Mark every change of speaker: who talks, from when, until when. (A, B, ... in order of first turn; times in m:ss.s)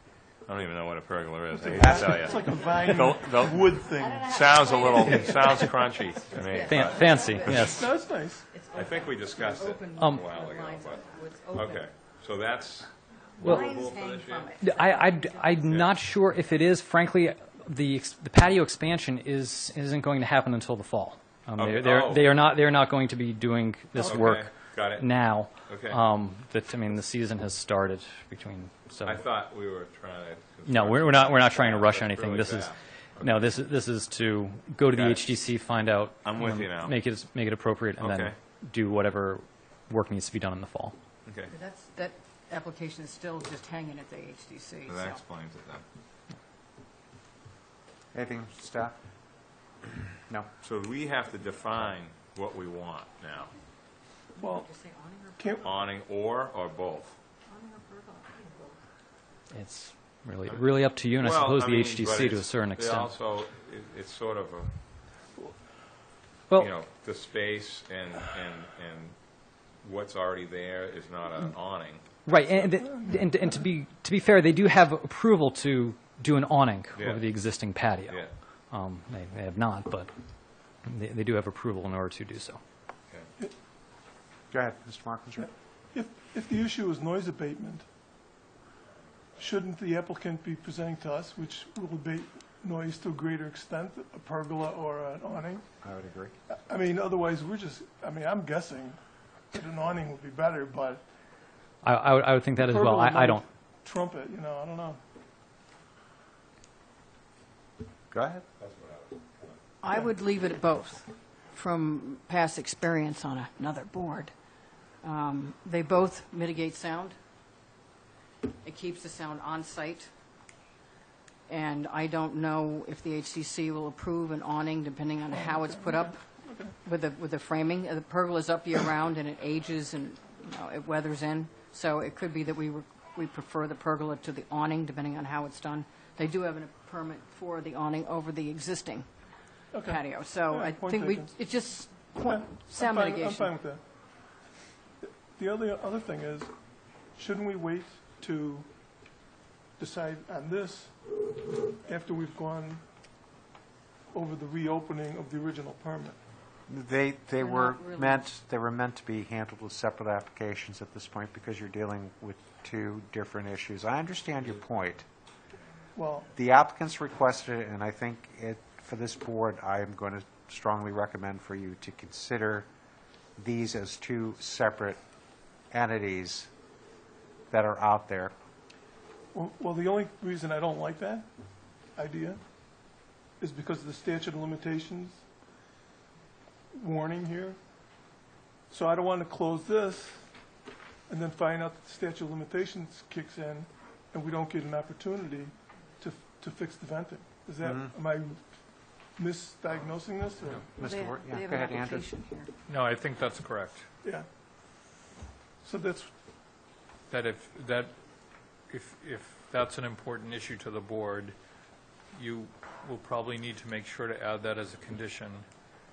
0:00.4-0:08.0 A
0:01.5-0:04.4 B
0:02.2-0:02.8 C
0:03.9-0:11.9 C
0:05.1-0:05.5 B
0:06.6-0:07.8 D
0:07.7-0:08.6 B
0:08.6-0:14.6 A
0:09.9-0:10.3 D
0:13.4-0:15.8 C
0:13.4-0:13.7 D
0:14.6-0:29.2 D
0:15.6-0:15.9 A
0:21.5-0:22.4 A
0:23.9-0:26.1 A
0:29.0-0:33.7 A
0:30.7-0:41.0 D
0:34.9-0:35.4 A
0:36.2-0:37.0 A
0:38.0-0:38.4 A
0:41.2-0:41.5 A
0:41.5-0:45.2 C
0:44.9-0:45.8 A
0:48.1-0:49.0 E
0:50.6-0:53.5 A
0:54.4-0:55.7 C
0:54.4-0:54.7 B
0:55.4-0:55.6 B
0:55.6-0:57.2 A
0:57.5-0:58.8 C
0:59.5-1:03.1 D
1:00.4-1:04.8 A
1:06.6-1:09.2 A
1:09.8-1:12.2 A
1:12.3-1:22.6 D
1:12.8-1:13.6 B
1:16.9-1:18.4 A
1:24.5-1:25.5 E
1:25.4-1:27.9 B
1:29.4-1:35.6 B
1:35.8-1:36.3 E
1:36.5-1:41.0 B
1:41.8-1:43.4 D
1:42.6-1:45.0 B
1:48.1-1:48.4 E
1:48.6-1:49.6 A
1:49.8-1:54.3 C
1:55.0-1:57.2 C
1:58.4-2:00.1 C
2:01.5-2:06.2 C
2:05.3-2:06.8 B
2:06.8-2:19.1 C
2:19.7-2:21.4 B
2:19.8-2:23.5 C
2:22.2-2:23.9 B
2:25.0-2:26.5 B
2:27.1-2:28.7 B
2:29.8-2:31.0 B
2:31.8-2:32.8 B
2:34.1-2:36.2 B
2:36.7-2:45.0 E
2:37.4-2:38.3 C
2:46.0-2:46.3 B
2:46.4-2:52.7 E
2:53.4-2:55.0 E
2:55.7-2:56.5 E
2:57.5-2:58.3 E
2:59.3-3:01.3 B
3:02.0-3:02.4 B
3:03.4-3:05.2 B
3:06.7-3:07.6 B
3:08.7-3:10.3 B
3:11.1-3:18.4 B
3:17.6-3:17.9 E
3:19.1-3:20.7 B
3:20.8-3:22.1 E
3:20.8-3:22.5 C
3:22.7-3:23.9 F
3:25.6-3:26.1 B
3:27.1-3:27.9 F
3:28.7-3:31.4 F
3:32.1-3:35.4 F